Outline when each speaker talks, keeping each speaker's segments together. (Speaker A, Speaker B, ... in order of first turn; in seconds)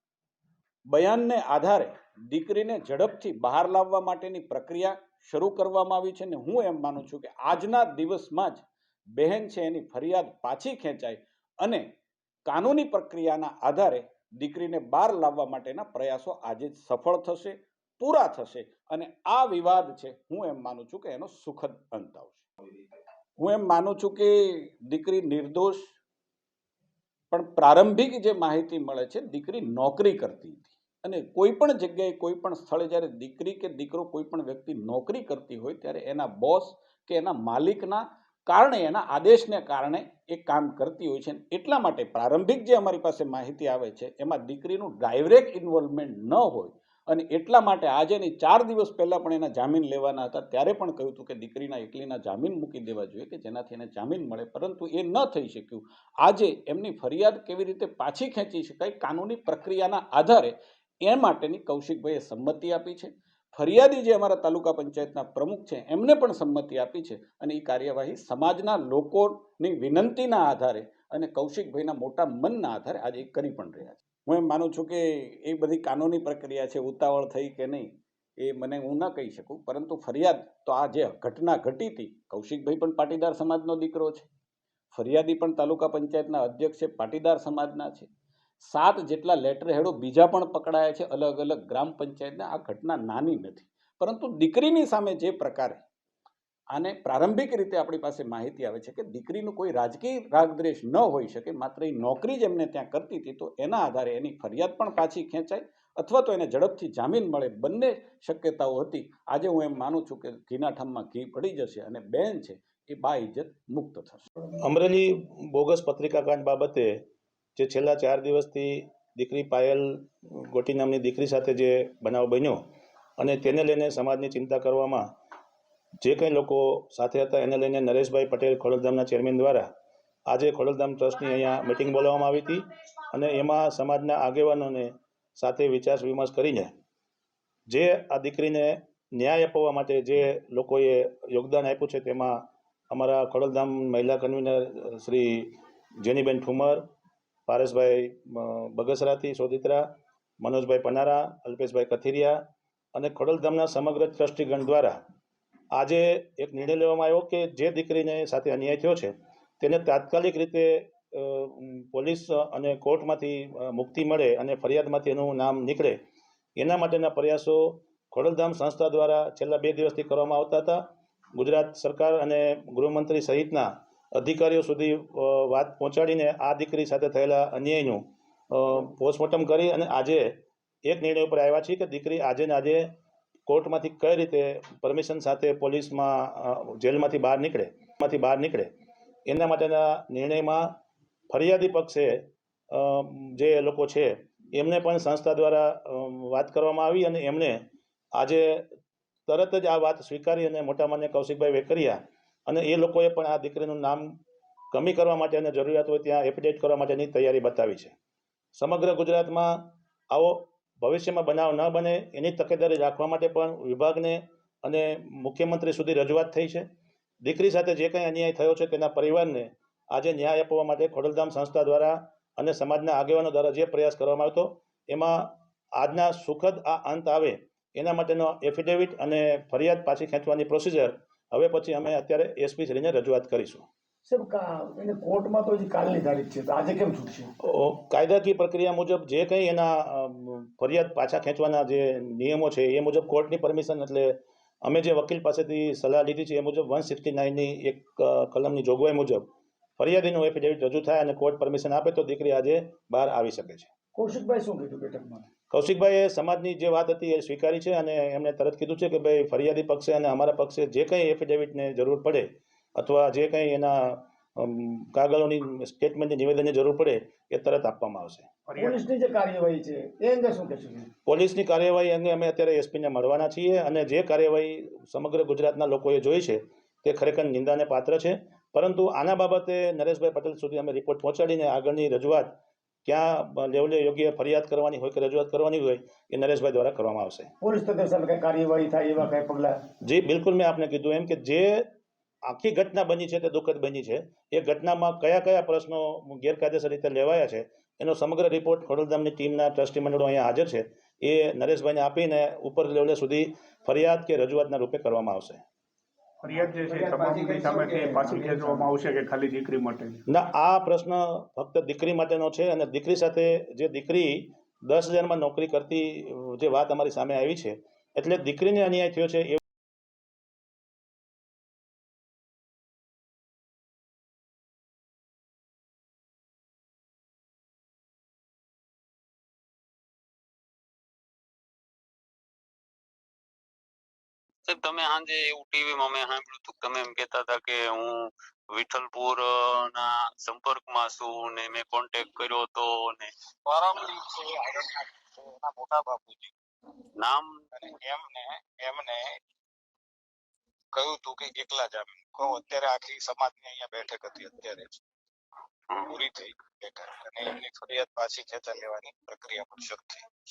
Speaker A: 0.9-11.9, 12.5-22.5, 23.4-25.9, 27.3-84.3, 84.9-88.1, 88.7-95.8, 96.7-114.3
Speaker B: 114.6-117.0, 117.6-122.6, 123.2-125.1, 126.0-129.7, 130.3-136.7, 137.7-146.9, 147.5-149.9, 150.4-152.4, 152.9-155.0, 155.7-166.0, 166.6-182.9, 183.5-188.7, 189.2-190.8, 191.3-198.7, 199.3-204.1, 204.7-207.9, 208.6-216.7, 217.2-233.7, 237.4-253.7, 255.5-268.3, 271.1-287.3, 289.8-291.7, 292.2-305.4, 310.1-319.4
Speaker C: 234.1-237.3, 253.9-255.2, 268.5-270.9, 287.4-289.6, 306.2-308.8
Speaker D: 306.8-309.8
Speaker E: 334.4-343.1, 347.0-347.4
Speaker F: 343.4-346.3, 347.6-349.2, 350.7-354.8, 355.8-360.1